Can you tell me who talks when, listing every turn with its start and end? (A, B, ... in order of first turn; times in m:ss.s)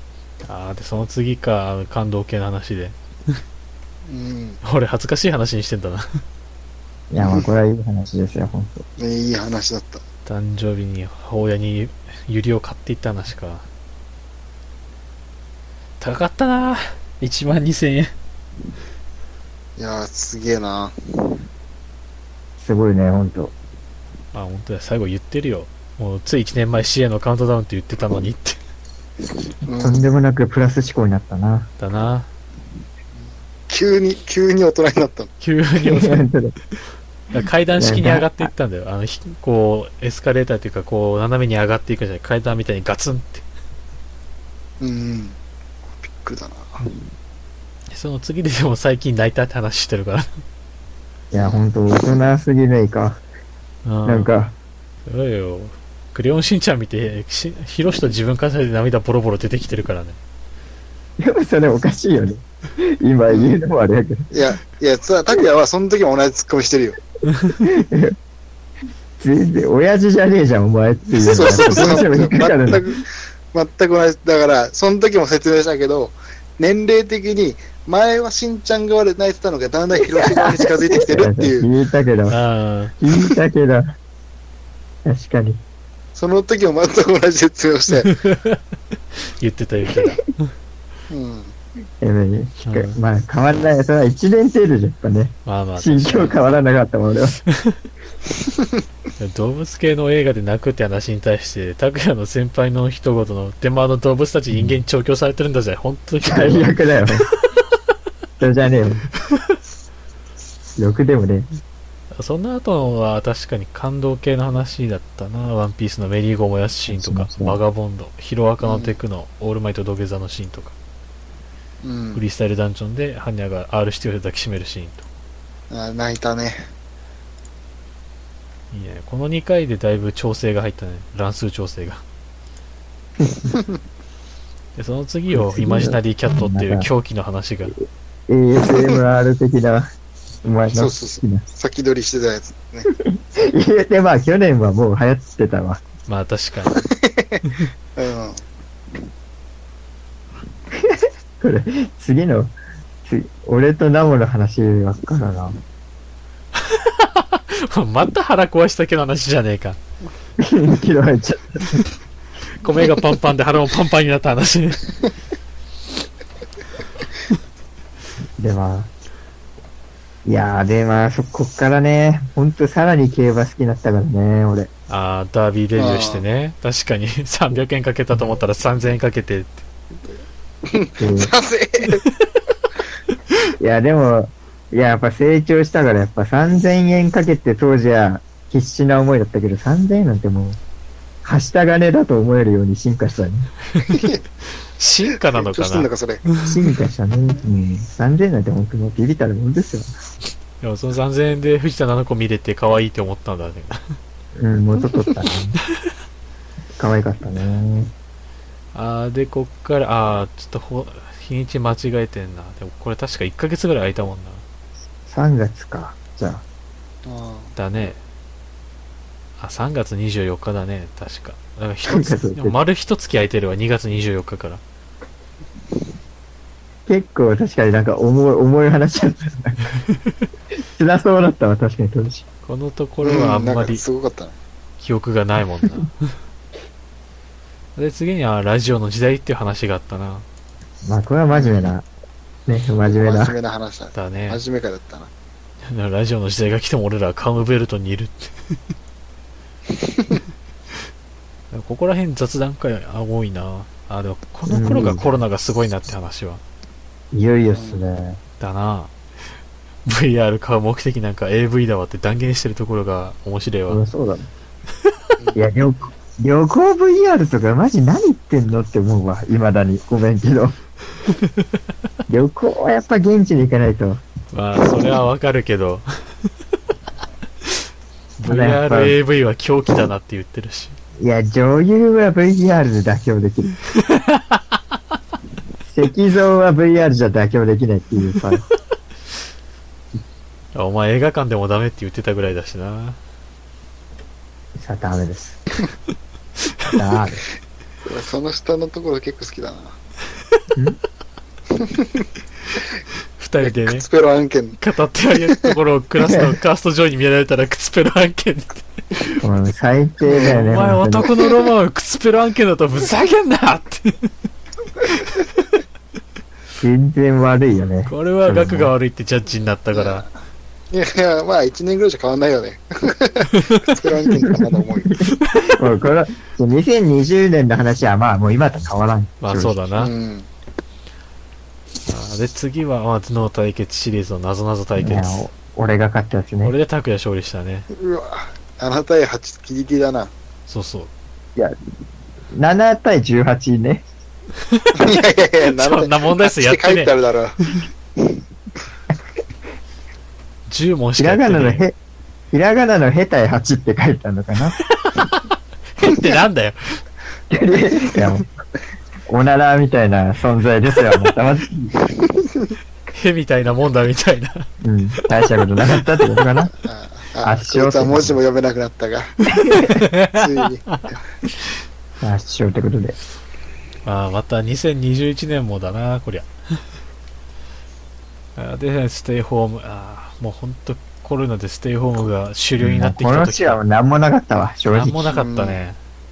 0:00.4-0:03.4 A
0:04.1-0:04.6 B
0:04.6-0:06.2 A
0:07.1-0:08.8 C
0:07.2-0:07.5 B
0:09.0-0:10.0 B
0:10.3-0:13.6 A
0:16.0-0:18.1 A
0:19.8-0:21.4 B
0:22.6-0:23.5 C
0:24.3-0:28.6 A
0:29.7-0:30.1 B
0:29.8-0:31.7 C
0:31.8-0:32.3 A
0:33.7-0:35.3 B
0:35.4-0:36.3 A
0:35.8-0:36.6 C
0:37.3-0:43.4 A
0:37.8-0:38.5 C
0:44.8-0:45.4 B
0:46.0-0:46.8 B
0:47.9-0:50.4 A
0:51.3-0:53.2 C
0:51.4-0:52.2 B
0:53.8-0:54.3 A
0:54.0-0:54.6 C
0:55.1-1:00.2 A
1:01.2-1:04.3 C
1:03.3-1:03.6 B
1:04.3-1:07.0 B
1:07.3-1:07.6 A
1:07.6-1:08.2 C
1:09.2-1:12.8 C
1:11.2-1:21.7 B
1:11.5-1:12.0 A
1:20.2-1:22.4 C
1:22.3-1:23.0 A
1:23.0-1:23.9 C
1:25.0-1:25.6 C
1:26.2-1:28.1 B
1:28.0-1:28.6 A
1:29.2-1:30.5 A
1:31.1-1:31.5 B
1:32.0-1:37.4 C
1:32.6-1:33.0 A
1:35.5-1:36.4 A
1:37.5-1:37.8 A
1:39.2-1:46.8 A
1:46.2-1:47.3 C
1:48.4-1:49.1 C
1:50.8-1:51.5 C
1:52.1-2:00.8 A
1:56.9-1:57.6 C
1:58.6-1:59.0 B
2:01.8-2:02.2 B
2:02.2-2:05.0 A
2:05.7-2:06.6 B
2:08.7-2:12.0 A
2:13.4-2:13.7 B
2:14.8-2:17.7 A
2:15.3-2:16.9 C
2:18.3-2:19.9 C
2:18.6-2:19.0 B
2:20.4-2:21.4 C
2:20.8-2:22.9 B
2:23.0-2:25.8 C
2:26.1-2:26.8 A
2:26.7-2:27.4 B
2:28.0-2:28.4 B
2:30.7-2:32.5 C
2:33.0-2:35.6 C
2:36.6-2:39.8 A
2:40.4-2:41.8 C
2:42.6-2:44.8 A
2:48.4-2:48.9 C
2:50.2-2:54.7 C
2:54.9-2:59.6 A
2:55.8-2:56.2 B
3:00.7-3:02.0 B
3:01.0-3:01.3 C
3:03.6-3:10.6 C
3:11.2-3:13.5 C
3:13.8-3:14.2 B
3:14.8-3:16.5 A
3:15.3-3:16.2 B
3:16.4-3:19.9 C
3:20.6-3:24.0 A
3:24.4-3:25.6 C
3:26.8-3:27.9 C
3:28.7-3:34.4 A
3:35.1-3:36.4 C
3:37.1-3:37.5 B
3:37.6-3:38.0 A
3:39.4-3:44.6 A
3:41.9-3:42.6 C
3:46.9-3:49.6 C
3:50.7-3:52.2 C
3:52.4-3:53.8 A
3:53.0-3:54.4 B
3:54.8-3:56.0 A
3:57.8-4:00.2 A
4:00.8-4:01.9 C
4:01.3-4:01.7 B
4:02.5-4:03.4 C
4:02.9-4:05.1 B
4:03.9-4:04.4 A
4:05.6-4:08.3 A
4:09.7-4:10.2 B
4:11.5-4:16.4 A
4:14.5-4:15.0 C
4:17.1-4:18.2 C
4:17.5-4:17.8 B
4:18.4-4:18.9 A
4:19.8-4:23.8 A
4:23.7-4:24.3 C
4:25.2-4:25.5 B
4:25.4-4:30.6 C
4:32.1-4:34.0 C
4:34.3-4:35.9 A
4:38.2-4:40.8 A
4:38.3-4:39.0 C
4:41.0-4:43.6 C
4:43.8-4:44.6 A
4:45.6-4:48.4 C
4:50.6-4:53.0 A
4:54.6-4:55.4 C
4:56.6-4:57.2 C
4:57.8-4:59.8 B
5:01.5-5:02.1 B
5:03.2-5:03.9 A
5:03.4-5:04.6 B
5:04.6-5:09.2 A
5:09.2-5:11.1 C
5:10.0-5:14.1 A
5:14.8-5:15.4 A
5:16.6-5:18.7 C
5:17.9-5:20.0 A
5:19.7-5:20.1 B
5:20.7-5:25.0 B
5:23.4-5:23.7 A
5:24.2-5:29.6 C
5:25.2-5:25.5 A
5:29.2-5:29.9 A
5:29.8-5:30.3 B
5:31.9-5:35.3 A
5:34.8-5:36.5 C
5:36.4-5:37.7 A
5:37.7-5:40.1 B
5:40.5-5:40.9 A
5:42.3-5:43.8 C
5:44.5-5:46.9 A
5:44.8-5:47.4 B
5:50.5-5:51.6 A
5:51.0-5:51.8 C
5:52.3-5:54.6 C
5:54.7-5:56.8 A
5:57.3-5:58.3 C
5:59.1-6:01.7 C
6:02.9-6:04.5 A
6:04.6-6:06.5 C
6:06.6-6:09.3 B
6:07.2-6:08.2 C
6:09.4-6:09.8 C
6:09.4-6:10.9 A
6:10.1-6:11.0 B
6:12.0-6:13.0 C
6:13.8-6:16.3 A
6:18.4-6:23.6 A
6:22.6-6:25.1 C
6:24.7-6:25.8 A
6:25.2-6:25.6 B